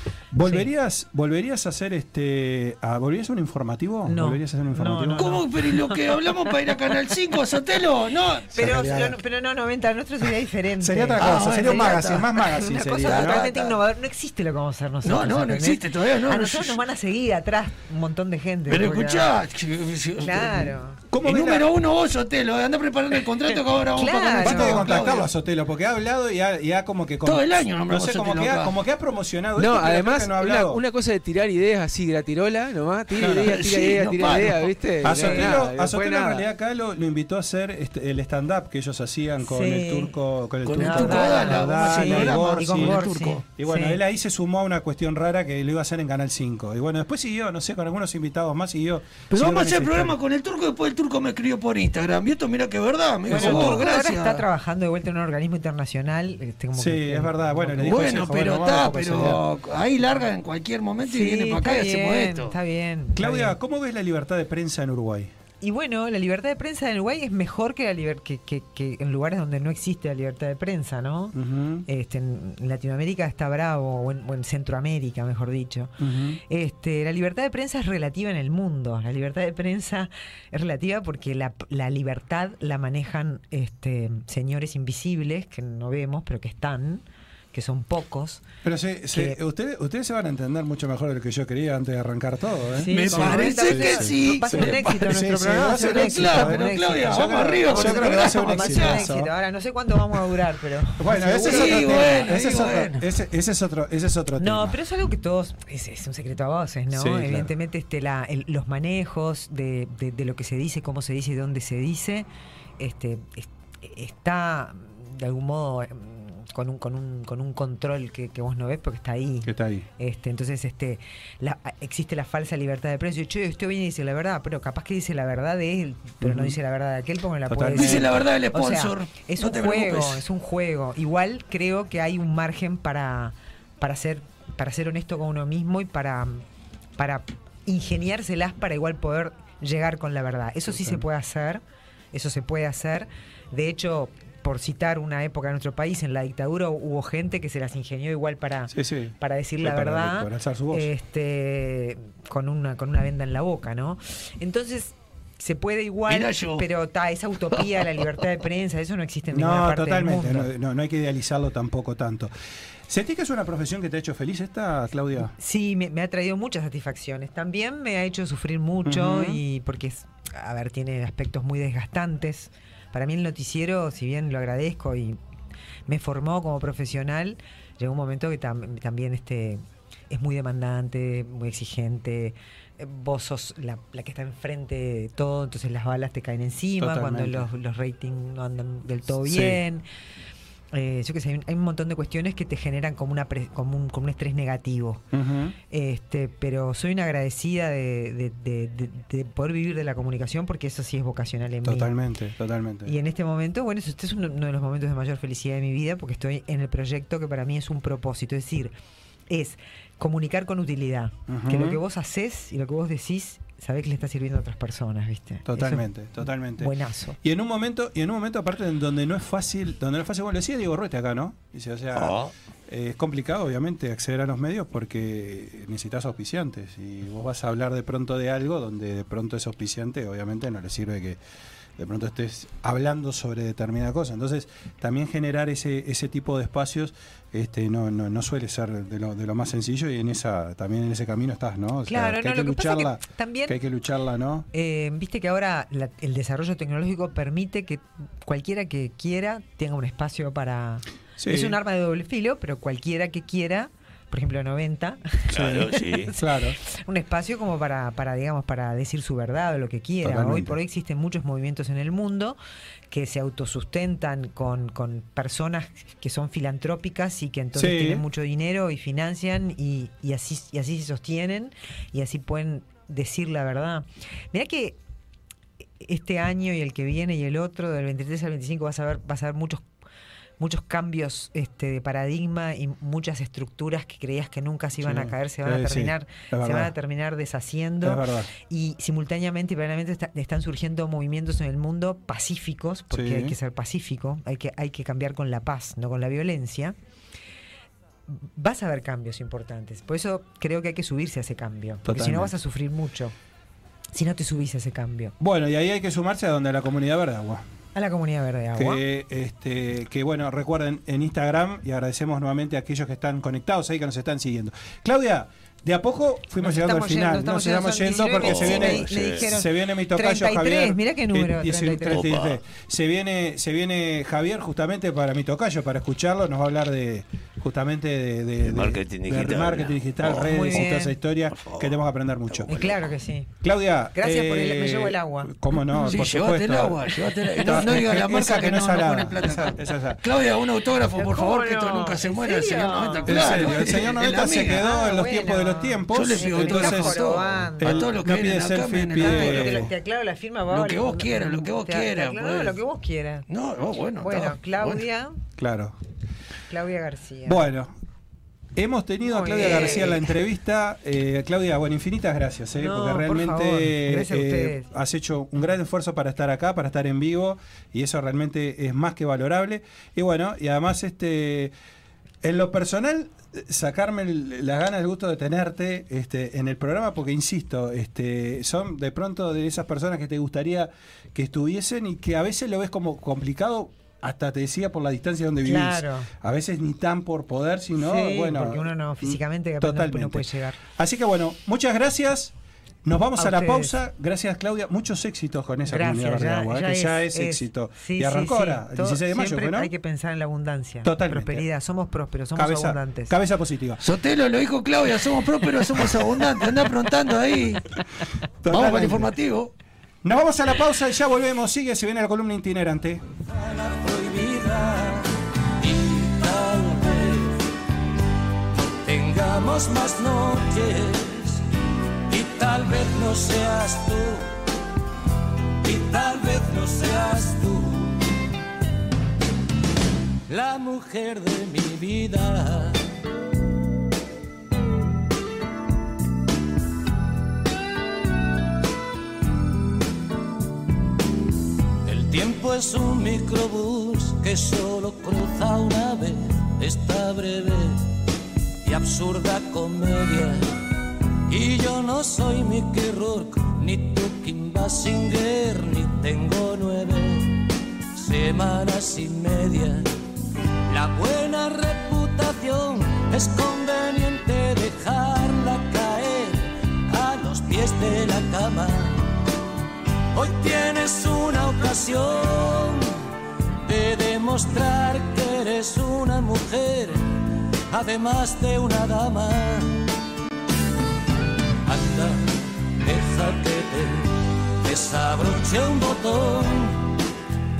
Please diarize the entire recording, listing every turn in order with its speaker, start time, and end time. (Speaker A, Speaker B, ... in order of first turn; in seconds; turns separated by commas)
Speaker A: 0.3-5.4, Speaker B: 0.4-0.7, Speaker B: 4.1-6.0, Speaker C: 5.2-8.9, Speaker B: 8.5-19.4, Speaker A: 8.6-9.2, Speaker A: 10.8-13.5, Speaker C: 11.2-12.4, Speaker C: 13.0-13.8, Speaker C: 15.0-16.8, Speaker C: 18.7-25.3, Speaker B: 20.2-21.0, Speaker A: 21.1-21.7, Speaker B: 23.9-24.9, Speaker A: 24.4-30.8, Speaker C: 27.2-28.8, Speaker D: 29.6-36.4, Speaker A: 33.2-33.6, Speaker C: 33.2-34.8, Speaker A: 35.0-43.0, Speaker B: 35.1-35.5, Speaker B: 39.4-40.1, Speaker C: 40.7-43.4, Speaker B: 40.8-44.0, Speaker A: 43.6-50.2, Speaker C: 49.3-54.5, Speaker B: 53.3-58.1, Speaker A: 53.3-53.9, Speaker A: 56.8-59.4, Speaker C: 57.8-62.6, Speaker B: 61.0-63.5, Speaker A: 63.2-65.3, Speaker B: 65.6-71.3, Speaker A: 71.3-71.9, Speaker B: 71.9-76.0, Speaker A: 76.0-76.4, Speaker B: 76.5-88.4, Speaker A: 88.6-99.3, Speaker B: 89.1-89.4, Speaker B: 92.8-102.4, Speaker C: 92.9-99.0, Speaker A: 101.0-104.8, Speaker C: 101.3-103.0, Speaker B: 104.4-112.3, Speaker A: 106.9-107.5, Speaker B: 112.8-136.4, Speaker A: 119.4-119.9, Speaker A: 126.2-126.6, Speaker A: 127.5-128.2, Speaker C: 127.7-130.2, Speaker B: 137.0-141.6, Speaker A: 140.7-141.0, Speaker B: 142.1-160.5, Speaker A: 148.7-150.9, Speaker C: 156.1-156.7, Speaker A: 159.3-162.3, Speaker A: 162.9-165.3, Speaker B: 165.4-175.2, Speaker A: 168.8-169.4, Speaker B: 175.9-189.8, Speaker A: 186.8-187.5, Speaker A: 189.2-189.6, Speaker B: 190.7-195.1, Speaker A: 195.1-195.6, Speaker B: 195.7-201.9, Speaker A: 201.7-202.9, Speaker B: 202.9-208.7, Speaker B: 209.3-215.9, Speaker A: 211.3-211.8, Speaker A: 215.5-231.2, Speaker B: 216.6-217.2, Speaker C: 222.0-222.3, Speaker A: 231.8-244.5, Speaker B: 241.9-243.6, Speaker B: 244.5-262.4, Speaker A: 251.2-251.6, Speaker C: 255.3-256.1, Speaker A: 255.3-256.6, Speaker A: 260.0-260.6, Speaker B: 262.9-274.8, Speaker A: 267.5-268.0, Speaker B: 275.8-279.6, Speaker B: 280.4-296.8, Speaker A: 284.8-286.7, Speaker A: 287.8-288.3, Speaker A: 292.9-293.4, Speaker B: 298.1-303.1, Speaker A: 301.9-302.3, Speaker B: 303.9-305.1, Speaker A: 305.2-307.4, Speaker B: 307.8-308.8, Speaker A: 308.6-332.6, Speaker B: 316.4-322.1, Speaker C: 318.2-319.2, Speaker C: 322.0-322.3, Speaker C: 328.5-330.3, Speaker B: 330.1-331.0, Speaker B: 332.5-333.3, Speaker C: 332.5-332.8, Speaker A: 333.4-340.0, Speaker B: 333.9-335.3, Speaker C: 335.8-344.6, Speaker B: 337.5-338.8, Speaker B: 340.9-343.9, Speaker A: 343.1-349.7, Speaker B: 344.5-348.0, Speaker C: 345.9-349.7, Speaker B: 348.9-353.3, Speaker C: 350.5-352.6, Speaker C: 353.3-354.8, Speaker B: 354.0-355.2, Speaker A: 355.4-355.8, Speaker B: 356.5-357.5, Speaker A: 357.3-357.7, Speaker A: 358.6-371.5, Speaker B: 359.0-360.1, Speaker B: 362.6-364.7, Speaker A: 372.2-392.3, Speaker B: 385.4-386.1, Speaker B: 387.8-390.6, Speaker A: 392.9-399.7, Speaker B: 393.2-393.8, Speaker B: 395.7-403.2, Speaker A: 400.8-401.5, Speaker A: 402.4-403.8, Speaker C: 403.8-407.7, Speaker A: 408.4-409.1, Speaker C: 408.5-409.5, Speaker A: 410.0-413.0, Speaker E: 413.2-417.5, Speaker E: 418.5-421.4, Speaker E: 422.1-424.4, Speaker E: 425.6-428.0, Speaker E: 430.3-432.9, Speaker E: 441.8-447.9, Speaker E: 448.6-450.6, Speaker E: 451.3-459.9, Speaker E: 460.7-469.1, Speaker E: 470.1-473.1, Speaker E: 473.6-477.1, Speaker E: 477.7-479.9, Speaker E: 481.7-486.9